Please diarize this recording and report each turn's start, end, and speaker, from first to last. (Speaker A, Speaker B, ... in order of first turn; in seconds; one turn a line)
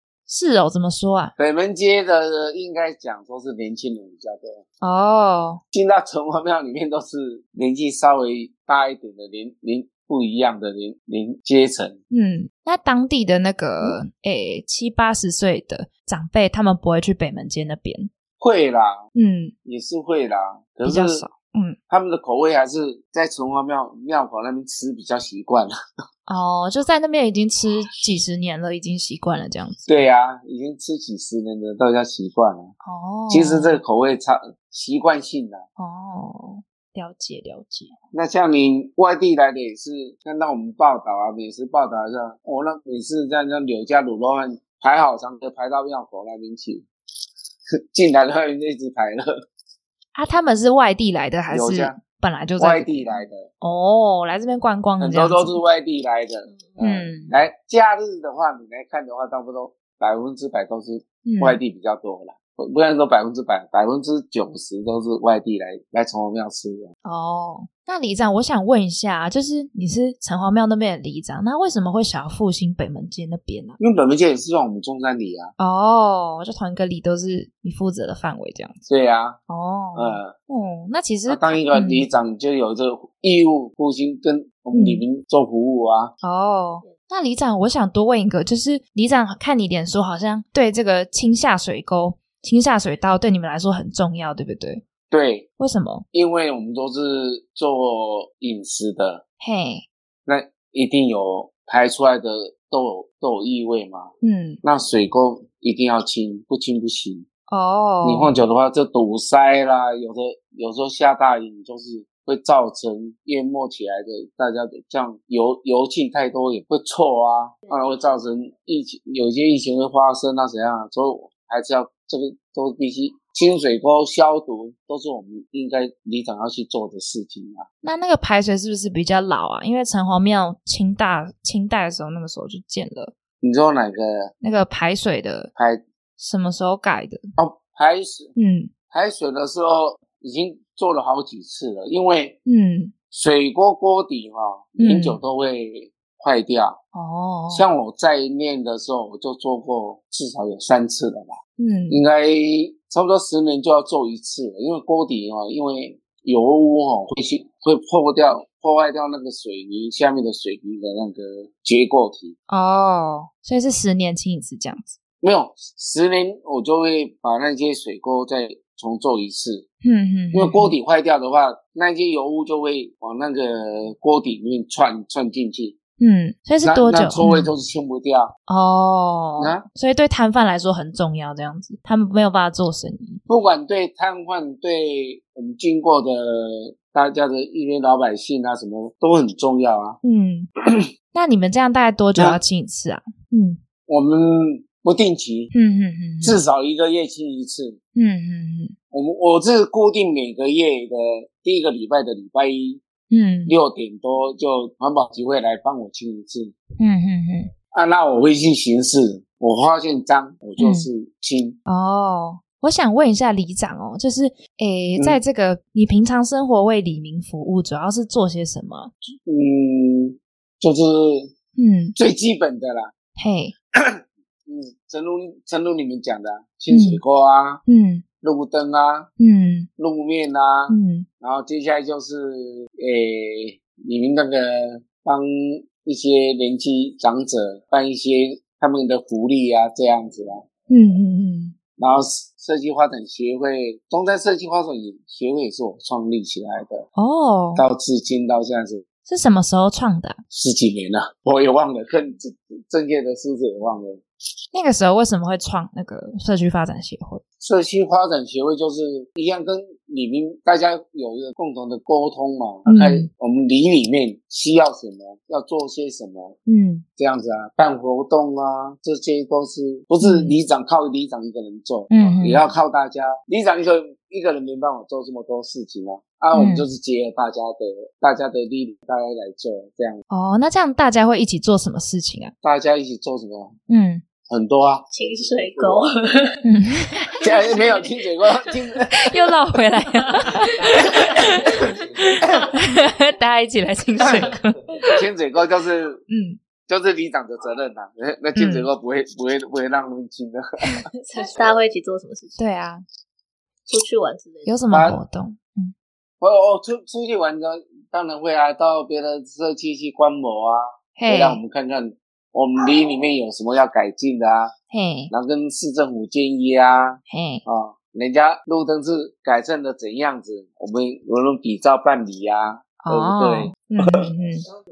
Speaker A: 0.3-1.3
Speaker B: 1.4-4.6
Speaker A: 4.8-5.6
Speaker B: 5.7-12.0
Speaker A: 12.1-18.1
Speaker B: 18.4-19.1
Speaker A: 19.1-19.5
Speaker B: 19.6-21.2
Speaker A: 20.8-21.8
Speaker B: 21.9-25.7
Speaker A: 26.3-29.9
Speaker B: 29.9-32.7
Speaker A: 32.8-33.8
Speaker B: 33.3-35.6
Speaker A: 35.8-37.9
Speaker B: 38.1-46.9
Speaker B: 47.9-49.3
Speaker A: 50.1-55.6
Speaker B: 51.5-52.0
Speaker B: 52.6-53.5
Speaker B: 55.0-66.9
Speaker C: 56.5-56.8
Speaker A: 56.8-57.3
Speaker A: 61.2-61.6
Speaker A: 67.0-73.8
Speaker B: 73.8-75.5
Speaker A: 75.6-78.9
Speaker B: 78.9-79.4
Speaker A: 79.5-82.1
Speaker B: 80.0-80.3
Speaker B: 81.3-86.1
Speaker A: 84.7-85.0
Speaker A: 86.2-94.8
Speaker B: 95.1-95.5
Speaker A: 95.6-96.0
Speaker B: 96.1-99.2
Speaker A: 99.4-99.9
Speaker B: 100.3-104.1
Speaker A: 104.2-104.6
Speaker B: 104.6-107.3
Speaker A: 107.5-108.3
Speaker B: 108.0-127.7
Speaker C: 117.7-118.0
Speaker A: 127.8-133.1
Speaker B: 133.4-134.3
Speaker A: 134.4-135.5
Speaker B: 135.6-135.8
Speaker A: 136.2-137.2
Speaker B: 137.4-138.3
Speaker A: 138.4-138.7
Speaker B: 138.9-142.4
Speaker A: 142.5-142.9
Speaker B: 143.1-146.8
Speaker A: 144.8-145.2
Speaker A: 146.9-147.7
Speaker B: 147.5-151.4
Speaker A: 151.6-152.0
Speaker B: 151.9-162.4
Speaker A: 162.5-165.0
Speaker B: 165.2-169.7
Speaker A: 169.8-170.7
Speaker B: 170.3-175.8
Speaker A: 176.0-177.5
Speaker B: 176.6-178.3
Speaker A: 178.5-183.2
Speaker B: 179.4-179.7
Speaker B: 183.3-190.0
Speaker A: 190.0-190.5
Speaker A: 191.1-193.6
Speaker B: 193.9-195.5
Speaker A: 195.5-196.4
Speaker B: 196.2-197.8
Speaker A: 198.0-198.7
Speaker B: 198.9-202.8
Speaker A: 203.1-203.6
Speaker B: 203.5-206.6
Speaker A: 206.8-207.5
Speaker B: 207.7-211.6
Speaker A: 210.6-210.9
Speaker A: 211.7-218.9
Speaker B: 219.3-221.3
Speaker A: 221.6-221.9
Speaker B: 222.0-222.9
Speaker A: 223.2-223.5
Speaker B: 223.8-227.6
Speaker A: 226.7-227.0
Speaker A: 227.7-228.0
Speaker B: 228.2-229.1
Speaker A: 229.2-229.7
Speaker B: 229.8-240.4
Speaker A: 230.7-231.1
Speaker A: 240.7-241.6
Speaker B: 241.8-246.9
Speaker A: 247.0-247.7
Speaker B: 247.6-248.8
Speaker A: 249.1-250.2
Speaker B: 250.3-254.0
Speaker A: 254.5-257.2
Speaker B: 257.4-266.4
Speaker A: 262.7-263.1
Speaker A: 266.5-266.9
Speaker B: 267.0-280.0
Speaker A: 270.0-270.4
Speaker A: 271.9-272.5
Speaker A: 276.3-276.7
Speaker A: 280.1-282.3
Speaker B: 282.4-283.6
Speaker A: 283.7-284.0
Speaker B: 284.3-285.9
Speaker C: 284.9-286.4
Speaker A: 286.4-287.3
Speaker B: 287.2-289.0
Speaker C: 287.4-287.9
Speaker A: 288.9-294.9
Speaker B: 294.9-296.0
Speaker A: 296.1-296.4
Speaker B: 296.7-300.8
Speaker A: 298.4-298.7
Speaker C: 301.1-302.4
Speaker A: 302.4-302.8
Speaker C: 303.7-304.6
Speaker A: 304.5-305.7
Speaker B: 304.7-305.0
Speaker B: 306.2-314.5
Speaker A: 311.0-311.4
Speaker A: 314.7-315.1
Speaker B: 315.1-324.0
Speaker A: 317.1-317.4
Speaker A: 322.8-324.4